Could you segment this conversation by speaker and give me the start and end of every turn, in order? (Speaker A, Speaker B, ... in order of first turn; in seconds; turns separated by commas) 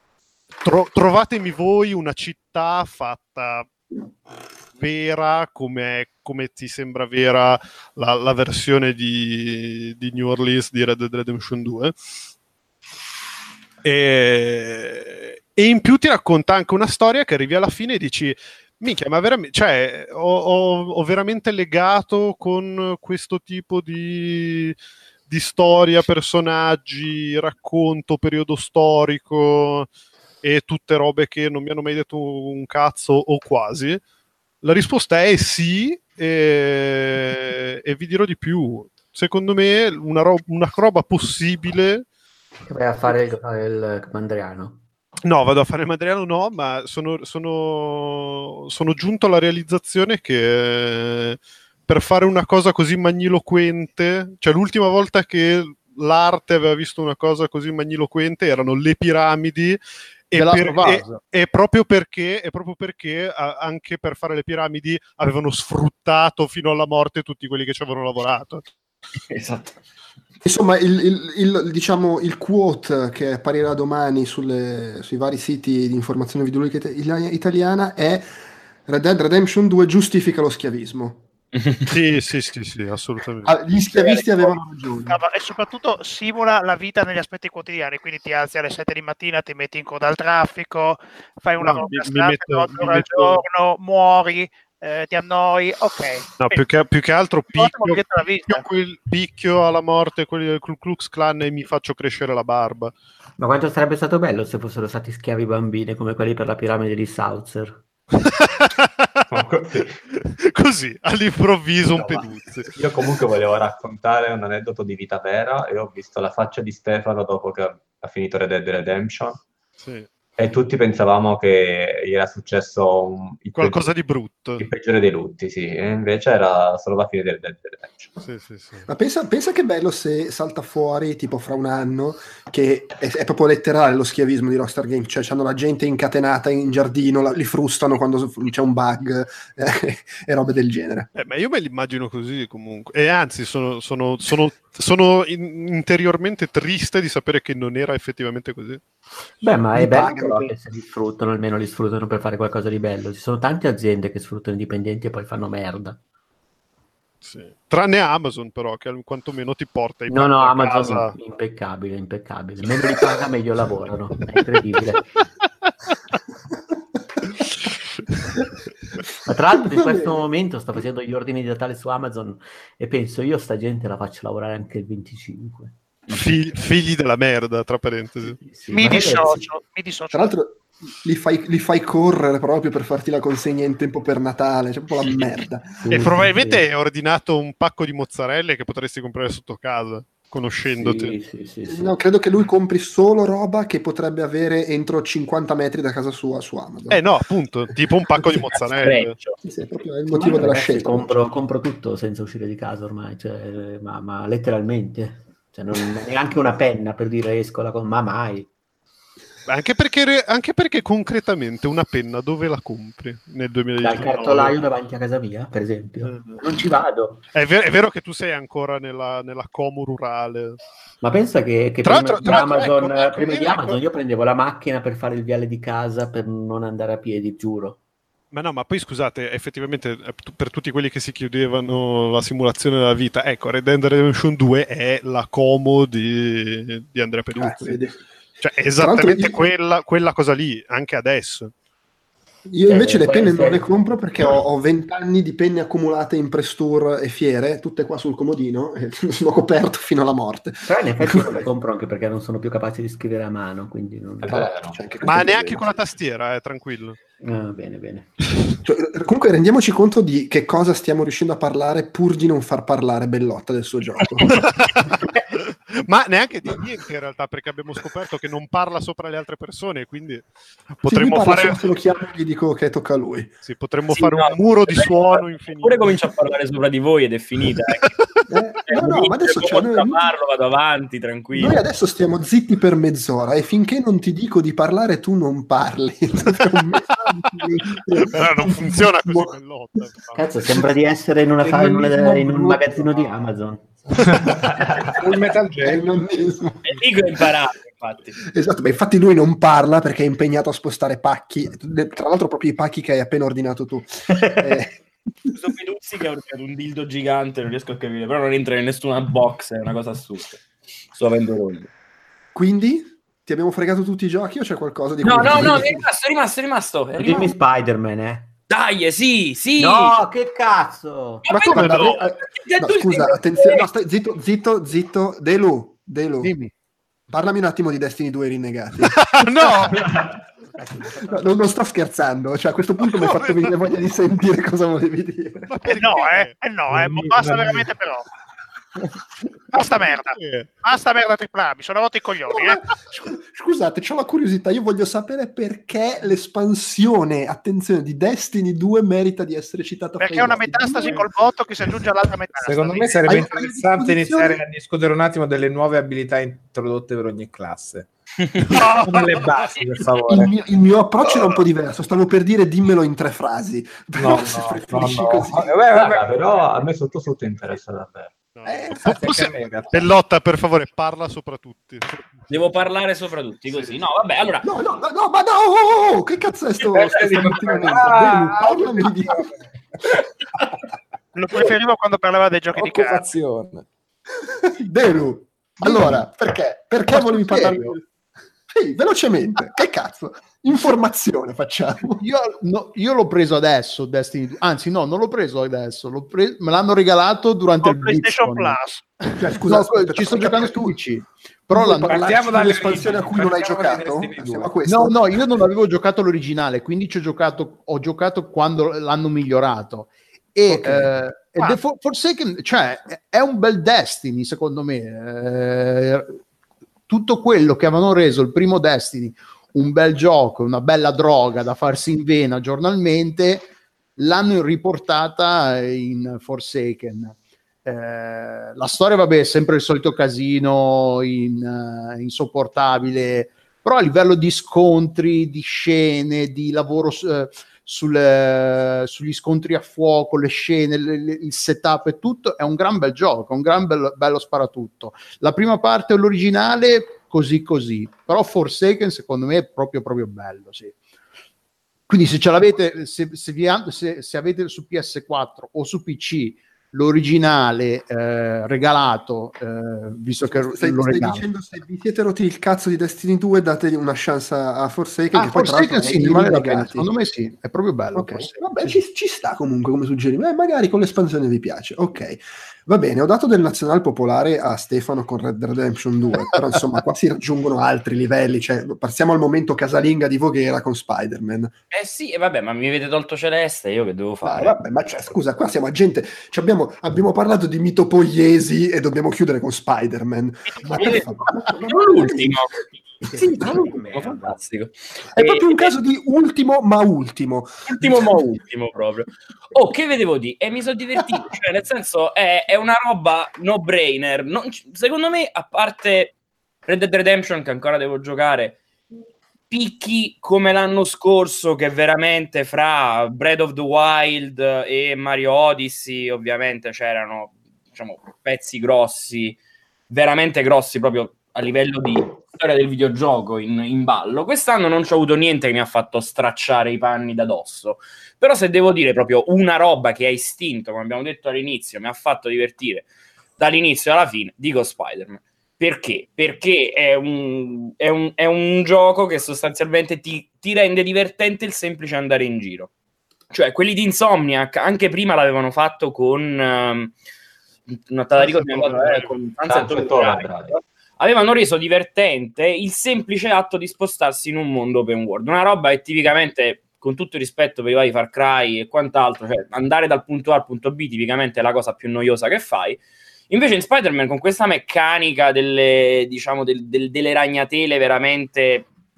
Speaker A: 0.6-3.7, Speaker A: 4.8-11.9, Speaker A: 13.8-24.8, Speaker A: 25.3-29.9, Speaker A: 30.4-34.0, Speaker A: 34.6-42.0, Speaker B: 42.6-44.8, Speaker A: 45.2-59.8, Speaker A: 60.3-68.6, Speaker C: 60.3-61.2, Speaker B: 69.3-69.8, Speaker D: 70.4-78.3, Speaker D: 78.8-81.2, Speaker E: 81.5-81.8, Speaker A: 81.8-83.6, Speaker D: 83.4-85.2, Speaker F: 83.9-96.6, Speaker A: 91.6-93.4, Speaker A: 96.4-102.9, Speaker F: 97.5-98.7, Speaker B: 103.4-107.8, Speaker A: 108.6-109.2, Speaker G: 109.3-110.0, Speaker A: 110.1-112.7, Speaker G: 112.7-119.4, Speaker A: 119.8-120.1, Speaker G: 120.4-123.9, Speaker A: 123.5-124.7, Speaker G: 124.6-128.2, Speaker A: 128.2-128.9, Speaker D: 128.9-141.1, Speaker A: 141.2-148.8, Speaker B: 149.4-156.0, Speaker D: 149.7-150.5, Speaker A: 157.2-161.1, Speaker B: 160.1-165.0, Speaker A: 167.5-168.3, Speaker B: 169.3-176.3, Speaker D: 169.7-170.1, Speaker A: 176.1-178.4, Speaker B: 178.2-179.5, Speaker F: 178.7-180.3, Speaker D: 180.1-186.1, Speaker B: 185.8-186.6, Speaker A: 185.9-191.1, Speaker B: 190.7-191.9, Speaker D: 191.7-197.0, Speaker A: 196.9-199.2, Speaker E: 198.8-199.4, Speaker D: 199.4-201.2, Speaker B: 200.1-208.5, Speaker A: 209.5-214.6, Speaker B: 213.8-217.2, Speaker A: 216.0-216.4, Speaker A: 217.3-220.6, Speaker B: 221.0-227.8, Speaker A: 221.8-223.8, Speaker D: 221.9-222.7, Speaker A: 228.3-237.8, Speaker D: 237.4-238.0, Speaker A: 238.4-241.5, Speaker D: 238.8-239.4, Speaker D: 242.4-251.4, Speaker B: 242.7-243.7, Speaker B: 250.7-254.6, Speaker G: 254.2-254.8, Speaker D: 254.3-255.7, Speaker A: 255.0-257.0, Speaker B: 257.2-258.1, Speaker D: 258.6-264.4, Speaker A: 264.2-271.6, Speaker D: 270.9-273.3, Speaker A: 273.4-275.9, Speaker E: 273.9-277.9, Speaker D: 278.3-280.0, Speaker E: 278.7-281.6, Speaker D: 281.3-289.3, Speaker A: 288.0-290.2, Speaker B: 290.1-294.1, Speaker D: 291.4-293.0, Speaker H: 294.9-295.9, Speaker D: 295.1-296.8, Speaker E: 296.6-298.2, Speaker D: 298.3-304.8, Speaker E: 305.3-310.4, Speaker E: 310.9-311.7, Speaker D: 312.3-315.8, Speaker E: 315.0-317.4, Speaker B: 316.9-318.3, Speaker E: 318.5-319.9, Speaker B: 319.6-321.3, Speaker E: 321.2-323.7, Speaker D: 321.3-326.3, Speaker A: 321.5-322.0, Speaker C: 326.2-326.5, Speaker D: 327.1-329.9, Speaker A: 328.9-330.1, Speaker D: 330.6-335.6, Speaker A: 332.9-333.4, Speaker A: 335.5-336.3, Speaker F: 335.6-338.0, Speaker H: 336.7-337.6, Speaker F: 339.5-342.6, Speaker A: 339.9-340.5, Speaker D: 342.3-351.1, Speaker F: 350.0-353.2, Speaker H: 352.4-360.3, Speaker D: 353.0-354.4, Speaker E: 358.2-358.7, Speaker D: 360.1-365.6, Speaker H: 363.9-366.4, Speaker G: 365.7-368.1, Speaker A: 368.3-372.1, Speaker D: 368.4-369.0, Speaker H: 368.8-369.9, Speaker E: 372.3-374.5, Speaker D: 374.4-379.3, Speaker H: 376.8-379.4, Speaker F: 381.1-383.0, Speaker H: 382.5-383.7, Speaker D: 384.3-387.8, Speaker H: 387.3-387.6, Speaker C: 387.3-387.7, Speaker D: 388.5-392.0, Speaker C: 392.0-398.6, Speaker F: 397.6-398.9, Speaker D: 399.2-400.8, Speaker C: 399.3-402.1, Speaker D: 401.5-405.3, Speaker H: 401.8-404.5, Speaker C: 404.6-416.2, Speaker D: 410.5-410.9, Speaker C: 416.9-450.8, Speaker C: 451.9-461.2, Speaker D: 460.3-466.9, Speaker C: 465.1-468.8, Speaker D: 467.9-481.5, Speaker E: 481.7-484.6, Speaker D: 484.2-492.4, Speaker F: 490.5-490.9, Speaker E: 490.8-491.0, Speaker E: 491.7-492.5, Speaker B: 493.0-494.4, Speaker D: 493.1-494.2, Speaker E: 493.4-495.7, Speaker D: 495.1-498.1, Speaker E: 497.7-506.1, Speaker E: 506.7-508.6, Speaker E: 509.5-519.4, Speaker E: 519.9-532.9, Speaker E: 533.4-542.7, Speaker E: 543.3-546.9, Speaker E: 547.7-568.7, Speaker A: 548.2-549.1, Speaker G: 549.5-550.6